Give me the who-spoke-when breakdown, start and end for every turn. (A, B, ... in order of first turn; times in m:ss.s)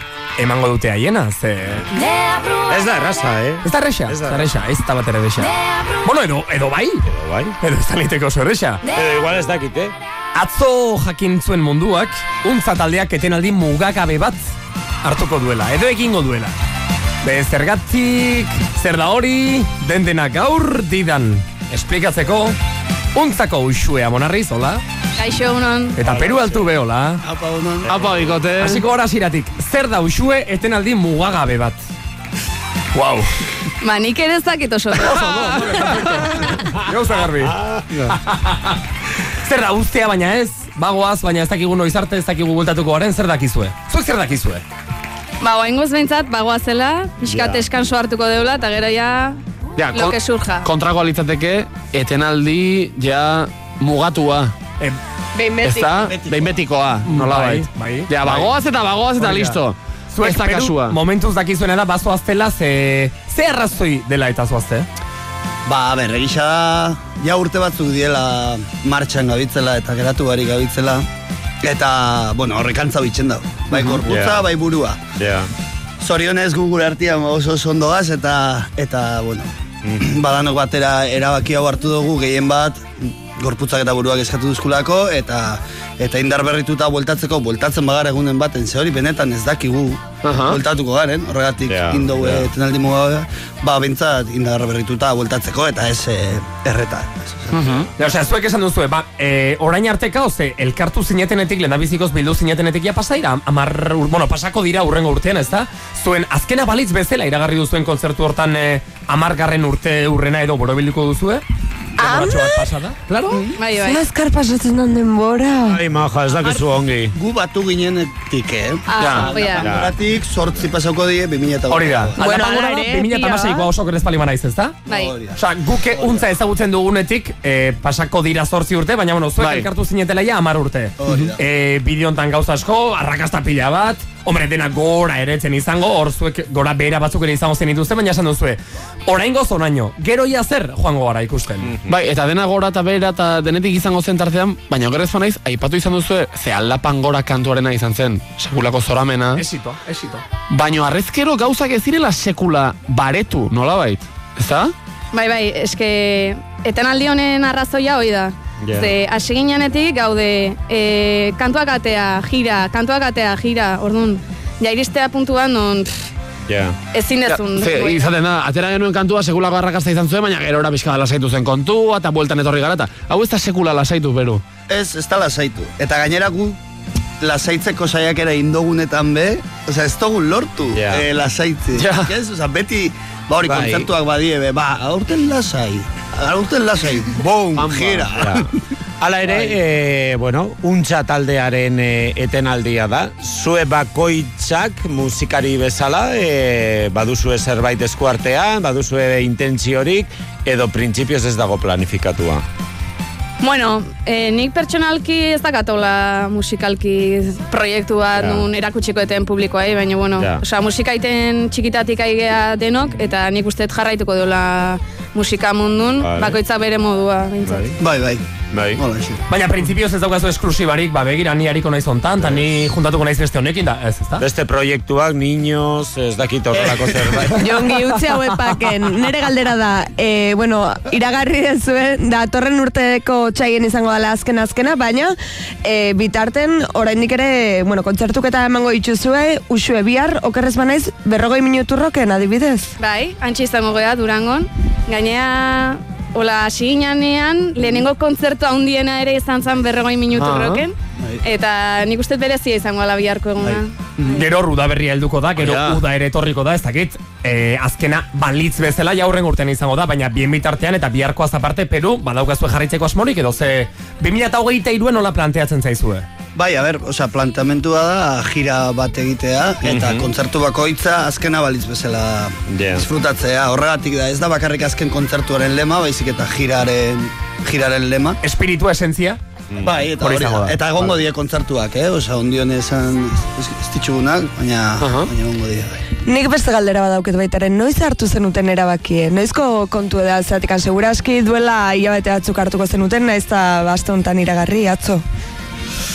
0:00.4-0:01.9 A
0:02.6-0:04.5 B
0:03.6-0:07.0 A
0:07.0-0:07.6 B
0:07.6-0:08.8 A
0:08.9-0:09.9 B
0:10.3-0:14.5 A
0:15.0-0:16.5 A
0:17.2-0:22.6 A
0:23.1-0:24.8 A
0:25.2-0:26.0 C
0:25.9-0:27.2 A
0:26.0-0:26.6 B
0:27.2-0:28.4 D
0:27.8-0:28.8 E
0:28.6-0:31.8 A
0:32.9-0:33.3 A
0:33.8-0:35.6 C
0:35.0-0:37.5 A
0:35.7-0:36.3 E
0:37.4-0:37.8 B
0:38.1-0:38.8 A
0:39.4-0:44.6 A
0:45.4-0:49.4 C
0:47.2-0:47.6 B
0:49.8-0:54.5 E
0:49.9-0:50.7 C
0:55.4-0:55.9 C
0:55.6-1:01.0 E
0:56.0-0:56.6 D
0:57.0-0:58.6 A
0:59.2-0:59.6 A
1:00.1-1:04.9 A
1:05.6-1:11.0 D
1:11.6-1:15.0 D
1:14.1-1:14.4 B
1:15.2-1:15.5 B
1:16.0-1:37.9 D
1:30.2-1:30.6 E
1:31.6-1:32.5 B
1:37.5-1:37.9 E
1:38.0-1:51.4 A
1:52.0-1:53.4 A
1:52.0-1:52.6 F
1:53.6-1:54.0 C
1:53.7-1:55.8 F
1:55.7-1:57.1 B
1:57.1-2:02.2 D
1:58.9-1:59.7 C
1:59.0-1:59.4 E
1:59.6-1:59.9 B
2:01.7-2:04.8 A
2:02.2-2:03.7 F
2:04.9-2:05.2 C
2:04.9-2:05.4 D
2:05.4-2:21.7 A
2:05.9-2:06.2 D
2:09.4-2:09.7 E
2:11.0-2:11.4 D
2:21.6-2:22.0 B
2:21.9-2:29.4 E
2:29.4-2:30.2 A
2:30.5-2:34.7 E
2:35.1-2:46.1 C
2:38.6-2:38.9 B
2:46.5-2:46.8 B
2:46.9-2:48.1 C
2:47.2-2:54.4 E
2:54.7-2:56.6 D
2:57.2-3:08.5 D
3:00.7-3:01.0 B
3:01.7-3:02.1 E
3:03.5-3:03.7 B
3:07.5-3:08.1 E
3:08.1-3:08.5 B
3:09.0-3:22.4 B
3:23.4-3:37.8 C
3:28.2-3:28.5 B
3:36.0-3:36.4 B
3:37.8-3:39.2 D
3:38.5-3:38.8 B
3:39.3-3:44.2 A
3:42.2-3:42.5 B
3:44.2-3:47.5 B
3:46.6-3:47.3 D
3:47.3-4:02.7 F
4:02.8-4:14.3 C
4:10.1-4:10.6 E
4:14.0-4:26.0 A
4:15.4-4:15.8 E
4:26.3-4:38.2 D
4:29.6-4:30.1 B
4:32.5-4:32.8 B
4:38.2-4:39.2 A
4:39.5-4:39.8 B
4:39.6-4:45.8 D
4:40.0-4:40.6 A
4:44.8-4:45.1 E
4:46.0-4:55.0 F